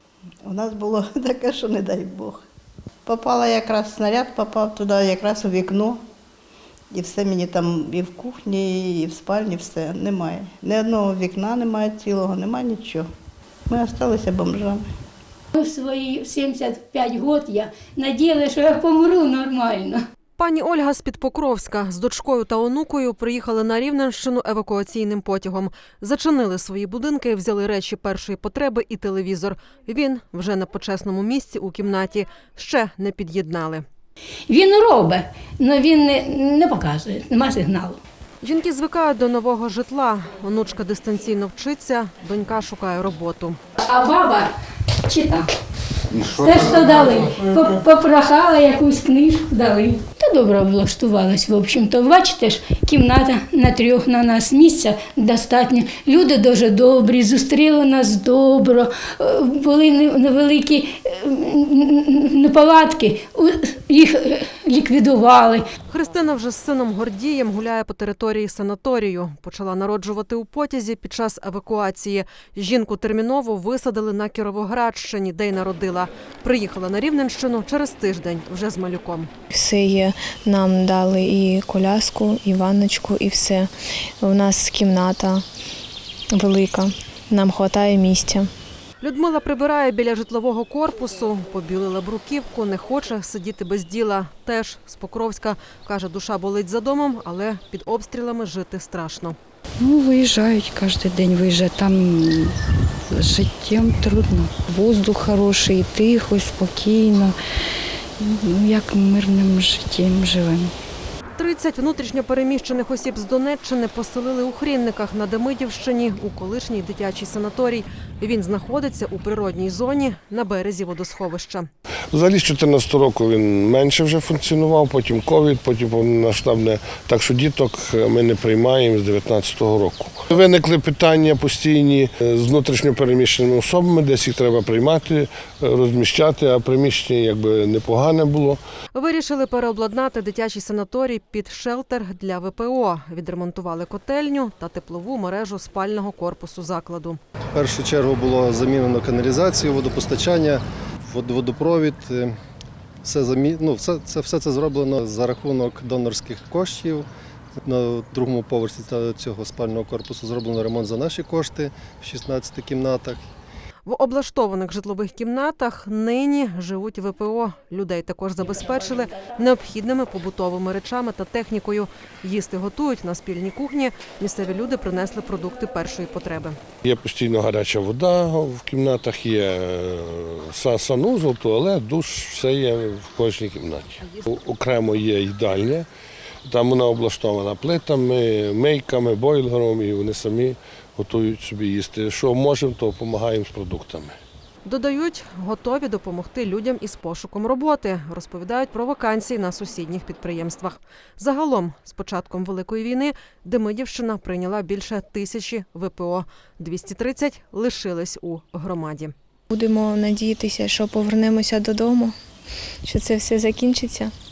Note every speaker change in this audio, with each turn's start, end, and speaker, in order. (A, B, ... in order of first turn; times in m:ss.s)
0:00.4-0:02.4 A
0:03.1-0:06.0 A
0:06.9-0:13.1 A
0:13.7-0:14.9 A
0:15.5-0:20.0 B
0:20.4-0:33.8 C
0:34.5-0:38.0 B
0:38.4-0:43.6 C
0:43.8-0:44.5 B
0:45.1-0:45.5 B
0:46.1-1:05.6 B
1:05.9-1:19.3 C
1:19.5-1:23.7 D
1:24.2-1:25.4 D
1:26.4-1:28.5 D
1:29.0-1:39.4 C
1:39.8-1:42.6 E
1:43.1-1:47.4 E
1:48.2-1:50.7 E
1:51.4-2:01.7 C
2:02.1-2:18.6 F
2:18.9-2:27.2 C
2:27.6-2:32.4 G
2:33.0-2:37.1 G
2:37.7-2:43.2 G
2:43.9-2:56.6 C
2:56.8-3:05.9 F
3:06.4-3:14.2 F
3:14.6-3:29.1 C
3:29.5-3:32.1 D
3:32.8-3:34.1 D